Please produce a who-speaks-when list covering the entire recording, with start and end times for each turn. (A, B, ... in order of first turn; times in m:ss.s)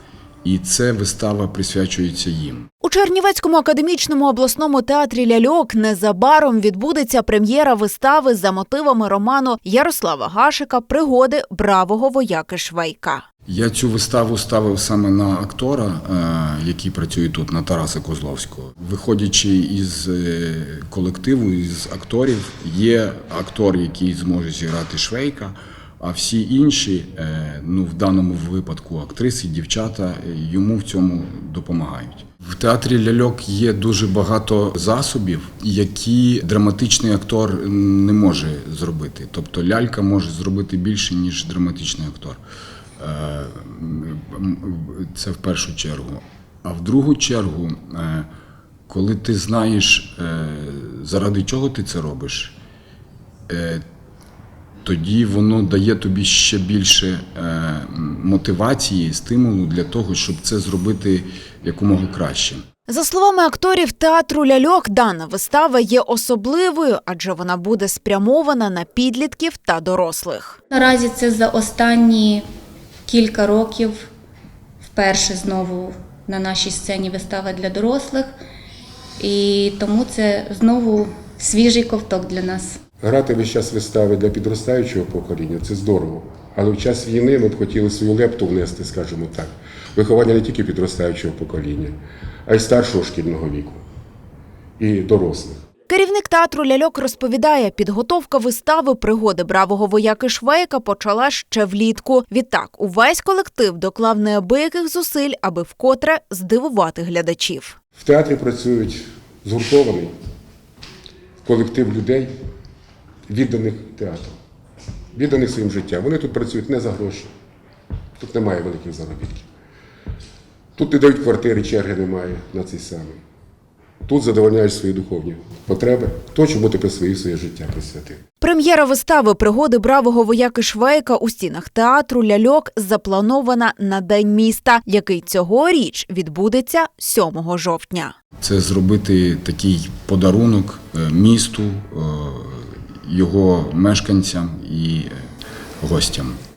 0:00.4-0:02.7 A
0:02.8-0:13.2 B
0:13.5-0:42.4 A
0:43.0-0:48.3 A
0:48.9-0:52.6 A
0:53.5-0:53.8 A
0:54.8-1:02.6 A
1:02.9-1:10.6 B
1:10.7-1:12.4 C
1:13.1-1:14.1 C
1:14.8-1:18.3 C
1:19.2-1:22.8 C
1:23.0-1:33.8 D
1:34.8-1:35.6 D
1:35.9-1:47.8 B
1:48.0-1:50.1 D
1:51.4-1:52.3 D
1:53.3-1:54.4 D
1:55.2-1:57.3 D
1:58.2-1:59.5 D
2:00.8-2:03.2 D
2:04.1-2:08.2 D
2:08.4-2:18.2 B
2:18.4-2:25.1 A
2:25.8-2:26.4 A